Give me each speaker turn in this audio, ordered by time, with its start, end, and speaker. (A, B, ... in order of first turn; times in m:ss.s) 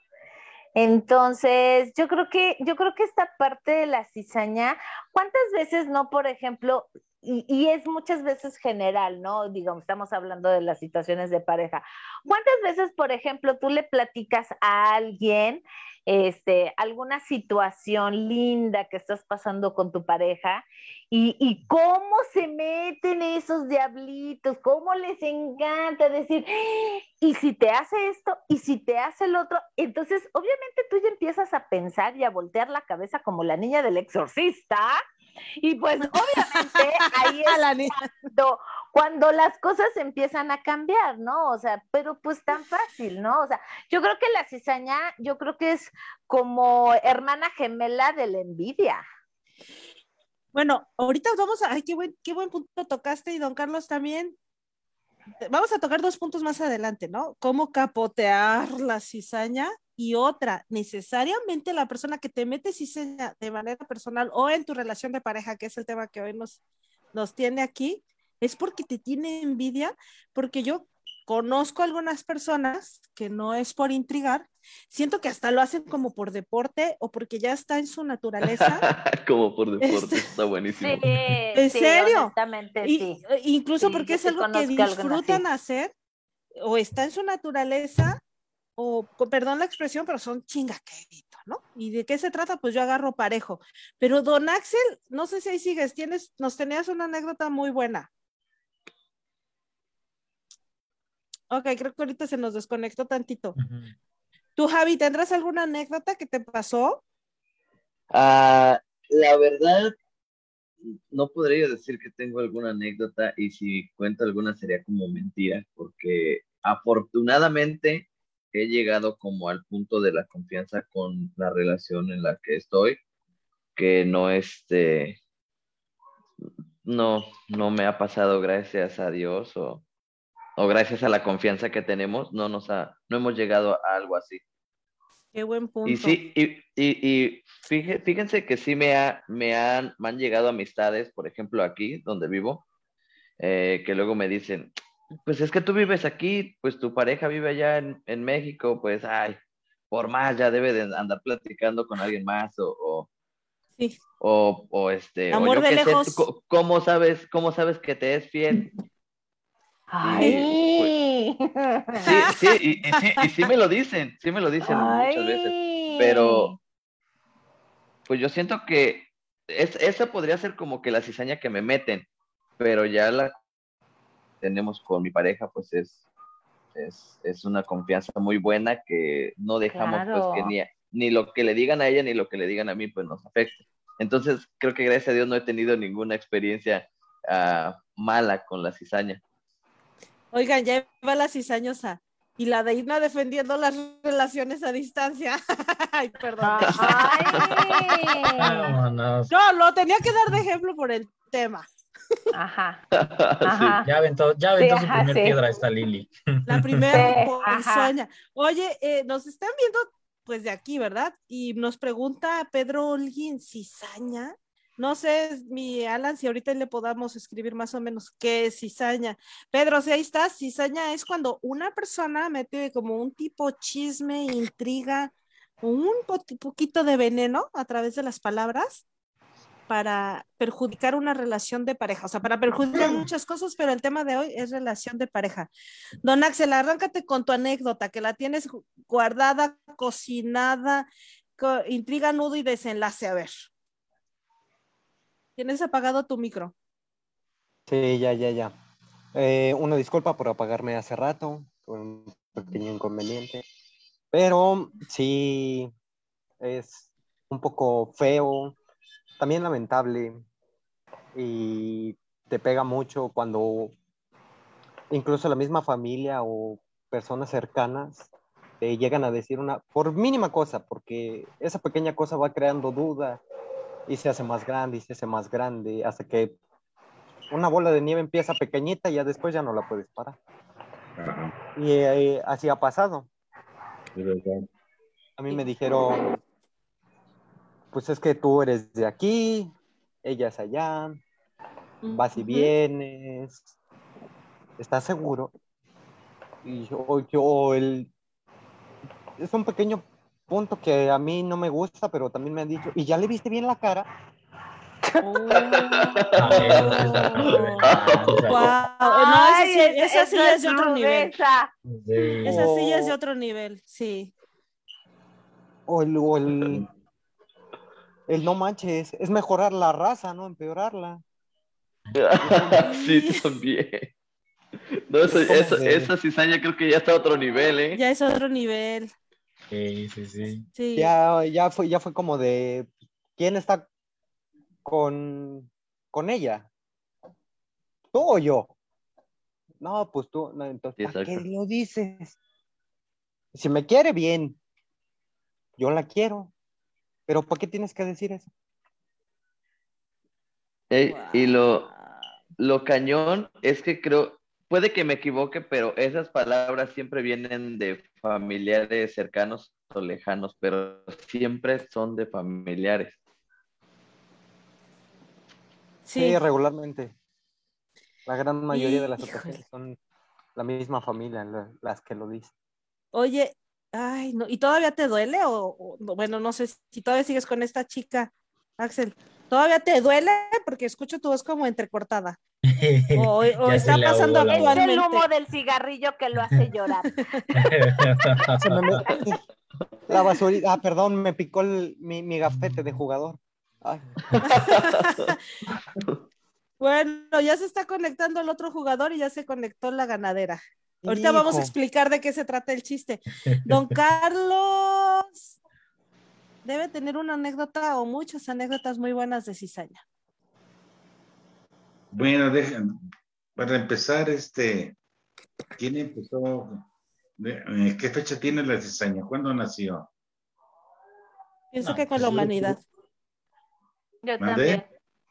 0:00.8-0:35.0 A
0:35.6-0:37.8 A
0:36.3-0:38.1 B
0:38.3-0:49.0 A
0:50.5-0:54.4 B
0:55.4-1:06.6 B
1:07.1-1:18.8 B
1:18.6-1:21.1 C
1:19.8-1:20.3 B
1:20.7-1:23.2 A
1:21.5-1:22.3 B
1:22.8-1:25.9 B
1:23.8-1:25.4 A
1:26.6-1:28.2 B
1:28.8-1:38.1 B
1:41.5-1:43.6 B
1:43.6-1:43.9 D
1:44.6-1:47.0 B
1:48.1-1:49.9 C
1:50.9-2:03.0 C
2:03.8-2:05.2 C
2:06.4-2:09.8 C
2:10.6-2:14.4 C
2:15.3-2:16.2 B
2:15.8-2:22.6 C
2:23.4-2:24.7 C
2:25.2-2:29.4 C
2:29.9-2:33.1 C
2:34.2-2:38.7 C
2:35.3-2:36.2 B
2:39.9-2:42.2 A
2:40.0-2:40.9 C
2:42.0-2:46.5 C
2:42.1-2:42.4 B
2:44.6-2:46.6 A
2:48.1-2:52.1 C
2:52.6-2:53.3 C
2:54.4-2:56.0 C
2:56.7-3:09.2 C
2:59.7-3:00.5 A
3:10.3-3:17.8 B
3:16.4-3:18.7 A
3:16.6-3:17.8 C
3:18.4-3:19.3 D
3:19.3-3:21.7 B
3:22.3-3:22.8 A
3:23.0-3:23.8 C
3:23.4-3:23.9 A
3:23.8-3:26.9 D
3:24.6-3:25.4 A
3:26.5-3:48.8 B
3:26.9-3:27.9 A
3:49.7-3:55.5 B
3:56.0-4:03.5 B
4:05.4-4:06.5 B
4:07.7-4:08.5 E
4:09.1-4:13.4 E
4:14.1-4:15.7 E
4:16.4-4:18.6 E
4:19.2-4:20.2 E
4:21.1-4:23.7 E
4:24.9-4:28.1 E
4:28.6-4:33.2 E
4:33.9-4:36.4 E
4:37.3-4:40.2 E
4:41.0-4:41.3 F
4:41.5-4:43.1 E
4:43.9-4:44.5 F
4:45.2-4:46.1 E
4:47.7-4:51.0 E
4:51.8-4:52.5 B
4:51.9-4:53.5 E
4:54.6-4:55.3 E
4:56.4-4:57.9 E
4:59.2-5:03.9 E
5:04.8-5:06.0 A
5:05.0-5:05.6 B
5:05.3-5:08.5 C
5:06.1-5:08.6 D
5:06.3-5:07.7 B
5:08.3-5:11.1 B
5:08.6-5:11.5 A
5:11.7-5:12.5 D
5:12.2-5:12.9 E
5:12.2-5:14.1 B
5:15.7-5:16.6 E
5:18.1-5:21.0 E
5:21.9-5:23.9 C
5:22.2-5:22.7 E
5:22.6-5:23.2 B
5:24.9-5:27.8 C
5:25.0-5:25.9 E
5:27.7-5:28.9 B
5:29.5-5:30.5 D
5:30.6-5:30.9 B
5:30.8-5:33.6 E
5:34.6-5:36.5 E
5:37.9-5:38.5 E
5:39.6-5:42.2 E
5:40.8-5:41.2 C
5:43.3-5:44.4 E
5:45.6-5:46.3 E
5:47.1-5:48.3 E
5:50.7-5:51.7 C
5:50.9-5:52.0 B
5:52.4-6:03.0 C
6:05.8-6:06.2 B
6:06.0-6:06.9 E
6:08.0-6:09.8 E
6:08.5-6:09.4 B
6:10.3-6:12.3 E
6:12.9-6:22.2 B
6:22.4-6:24.6 D
6:22.9-6:25.0 B
6:24.3-6:26.9 A
6:27.0-6:27.5 B
6:27.3-6:28.6 D
6:28.4-6:29.2 E
6:29.9-6:34.4 E
6:34.2-6:35.2 B
6:36.6-6:45.4 B
6:40.8-6:41.5 E
6:43.2-6:43.6 D
6:46.4-6:49.8 B
6:51.9-6:52.8 F
6:53.4-6:54.8 F
6:55.6-6:59.9 F
7:01.5-7:02.6 B
7:01.6-7:02.5 D
7:04.0-7:04.6 A
7:04.2-7:04.6 F